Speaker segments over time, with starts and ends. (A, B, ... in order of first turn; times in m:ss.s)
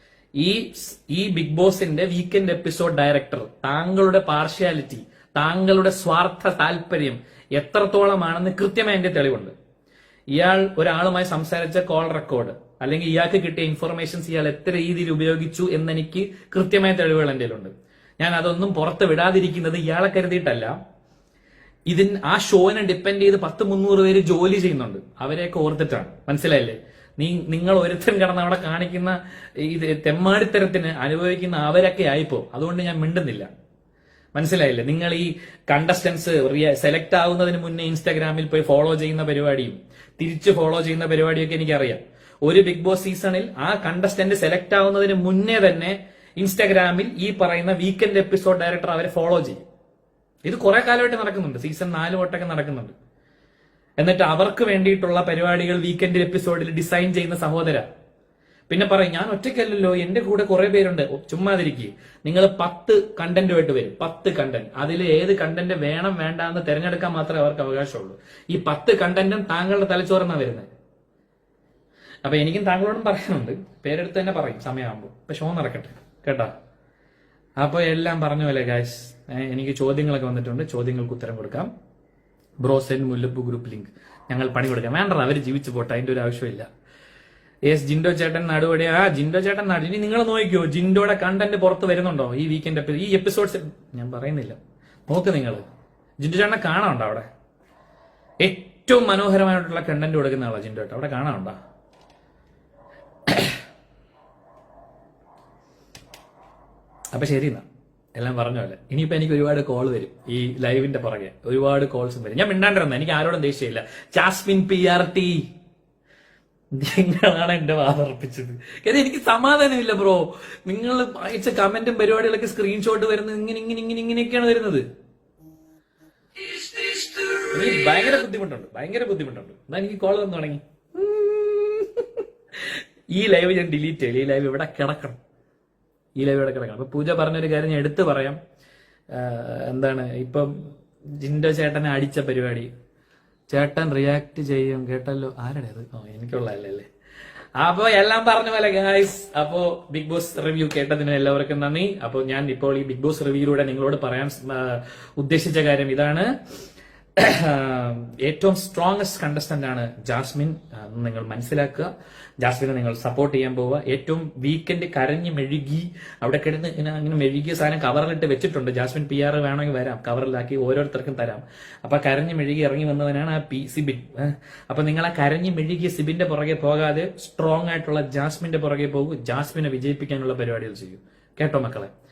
0:00.4-0:09.5 A
0:10.3-0:20.8 A
0:21.9-0:33.5 A
0:34.3-0:49.7 A
0:50.4-0:52.9 A
0:54.0-0:57.9 A
0:58.7-1:10.7 A
1:12.2-1:16.5 A
1:17.6-1:21.7 A
1:22.6-1:26.7 A
1:27.7-1:34.6 A
1:35.1-1:35.6 A
1:36.2-1:37.3 A
1:38.4-1:41.6 A
1:43.3-1:43.6 A
1:47.1-1:55.4 A
1:56.7-2:04.8 A
2:06.4-2:12.1 A
2:12.6-2:15.2 A
2:16.2-2:18.4 A
2:19.1-2:22.7 A
2:23.5-2:26.9 A
2:27.6-2:36.3 A
2:37.2-3:01.9 A